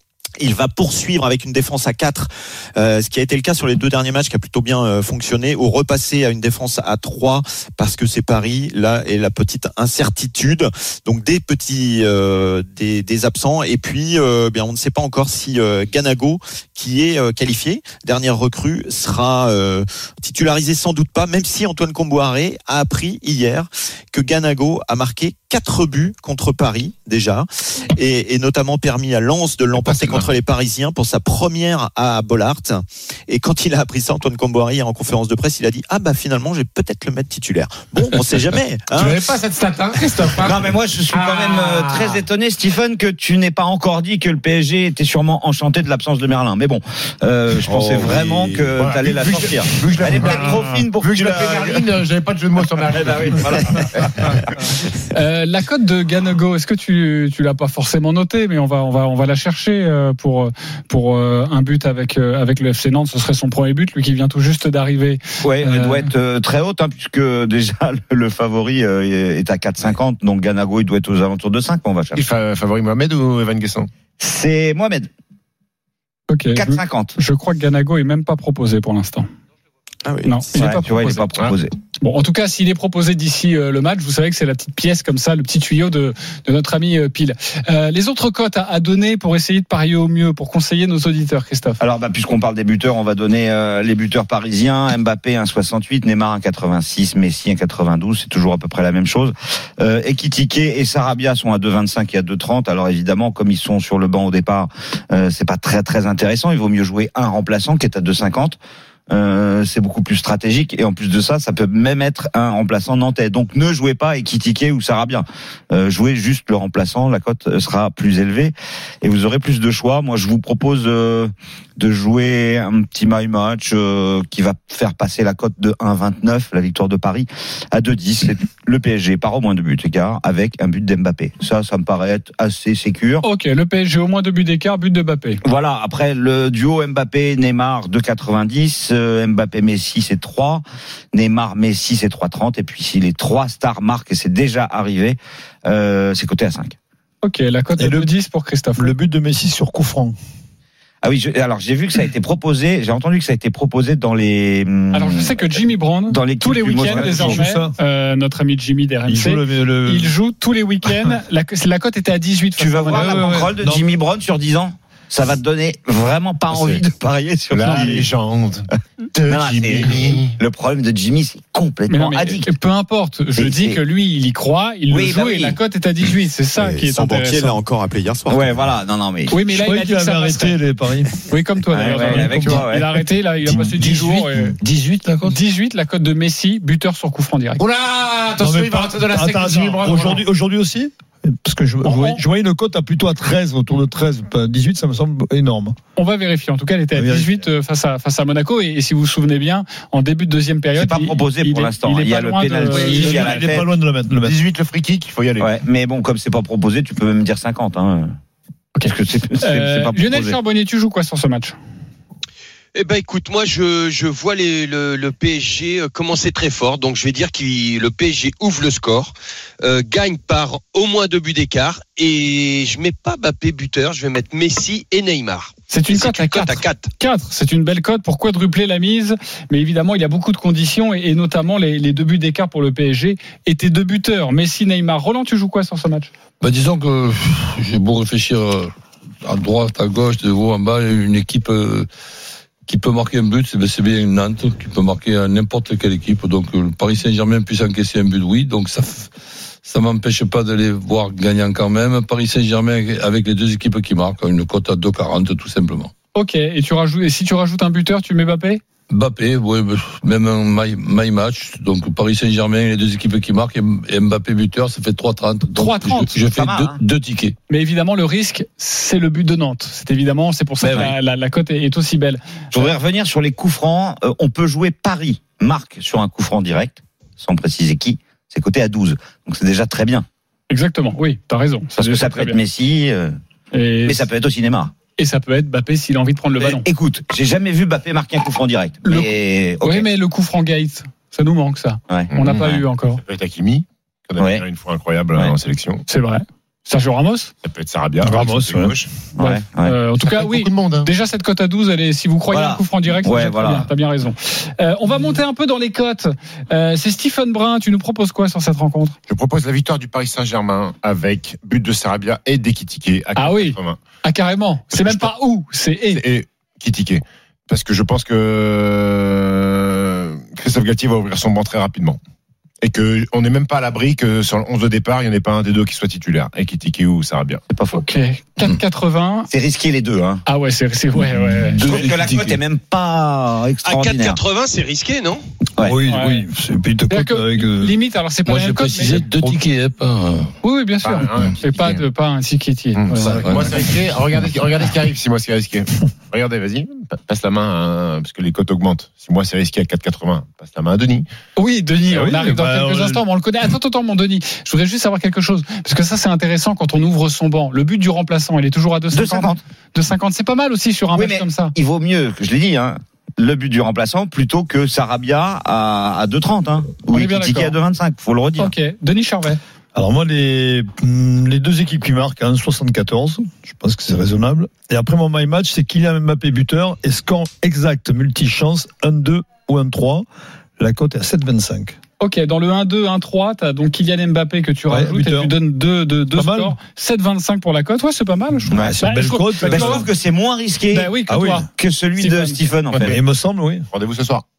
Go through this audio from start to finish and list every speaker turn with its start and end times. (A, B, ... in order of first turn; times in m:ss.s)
0:00.4-0:39.3 A
0:29.8-0:30.3 B
0:38.9-0:42.2 B
0:40.4-0:51.8 C
0:47.6-0:48.7 A
0:48.8-0:54.3 B
0:52.9-0:54.3 C
0:55.1-1:06.1 D
1:05.4-1:12.2 C
1:12.2-1:13.9 B
1:14.2-1:15.1 C
1:16.3-1:19.3 D
1:16.5-1:17.1 C
1:20.0-1:20.8 A
1:20.2-1:21.2 D
1:20.6-1:21.7 C
1:22.0-1:31.8 D
1:31.8-1:48.6 C
1:49.1-2:13.2 C
2:13.2-2:15.4 D
2:15.4-2:20.6 C
2:21.1-2:26.8 C
2:27.2-2:28.9 D
2:27.8-2:28.1 E
2:28.8-2:30.2 E
2:31.0-2:35.3 C
2:34.9-2:43.3 D
2:36.1-2:37.4 C
2:36.8-2:37.8 E
2:39.1-2:40.1 E
2:42.6-2:48.1 C
2:42.9-2:43.8 E
2:46.5-2:46.8 B
2:47.5-2:50.3 B
2:49.3-2:52.5 C
2:51.9-2:57.6 D
2:53.4-2:53.8 C
2:54.9-2:55.6 C
2:56.6-2:58.6 A
2:58.3-2:59.4 C
2:59.3-3:00.6 D
2:59.4-3:01.1 E
3:01.2-3:04.5 D
3:01.7-3:03.0 C
3:01.9-3:02.7 E
3:03.5-3:04.5 E
3:04.6-3:05.3 F
3:05.2-3:07.6 D
3:07.6-3:10.2 B
3:08.4-3:15.8 E
3:11.8-3:12.2 D
3:16.0-3:23.4 D
3:16.9-3:17.4 E
3:20.8-3:23.7 C
3:22.7-3:24.4 E
3:24.2-3:25.6 B
3:25.4-3:28.1 C
3:28.8-3:31.6 D
3:28.8-3:30.4 C
3:32.7-3:46.9 G
3:45.7-3:56.1 D
3:56.4-3:58.7 F
3:59.2-4:01.9 F
4:02.7-4:09.1 F
4:09.6-4:15.9 F
4:16.1-4:18.6 D
4:18.9-4:27.3 F
4:25.5-4:26.1 D
4:26.2-4:26.8 C
4:27.5-4:32.7 D
4:30.6-4:30.9 F
4:32.5-4:40.0 C
4:40.5-4:42.4 D
4:41.8-4:43.2 C
4:43.5-4:44.0 D
4:43.8-4:44.7 C
4:45.0-4:46.6 D
4:46.4-4:49.8 C
4:48.8-4:49.1 D
4:49.6-4:53.0 D
4:51.9-4:52.6 C
4:52.1-4:55.8 B
4:54.2-4:54.4 C
4:55.9-4:57.3 D
4:57.4-4:58.9 B
4:58.0-4:58.8 E
4:59.2-4:59.8 C
4:59.2-5:09.0 D
5:00.0-5:00.9 B
5:02.3-5:03.7 C
5:09.1-5:13.8 B
5:13.2-5:16.0 D
5:14.7-5:15.1 B
5:15.9-5:22.0 B
5:22.6-5:27.4 B
5:27.5-5:27.8 C
5:27.7-5:29.3 D
5:29.3-5:30.2 C
5:30.2-5:31.6 D
5:31.5-5:32.4 F
5:31.6-5:34.2 C
5:33.6-5:35.2 G
5:35.6-5:37.8 E
5:35.9-5:36.2 D
5:36.9-5:39.1 D
5:38.2-5:40.3 F
5:40.4-5:43.4 D
5:40.8-5:41.8 B
5:42.7-5:51.0 B
5:43.1-5:43.5 F
5:51.4-6:01.5 D
5:51.9-5:53.0 E
5:58.9-5:59.4 C
6:00.9-6:08.5 C
6:06.9-6:07.6 D
6:08.4-6:09.4 D
6:09.7-6:20.0 E
6:20.6-6:21.8 E
6:22.0-6:29.8 D
6:24.7-6:25.3 E
6:26.1-6:26.6 E
6:28.5-6:29.9 E
6:28.5-6:28.8 C
6:29.5-6:33.0 C
6:30.7-6:31.5 D
6:31.1-6:31.4 E
6:32.0-6:32.4 D
6:32.7-6:33.0 B
6:32.8-6:33.7 E
6:33.7-6:34.2 B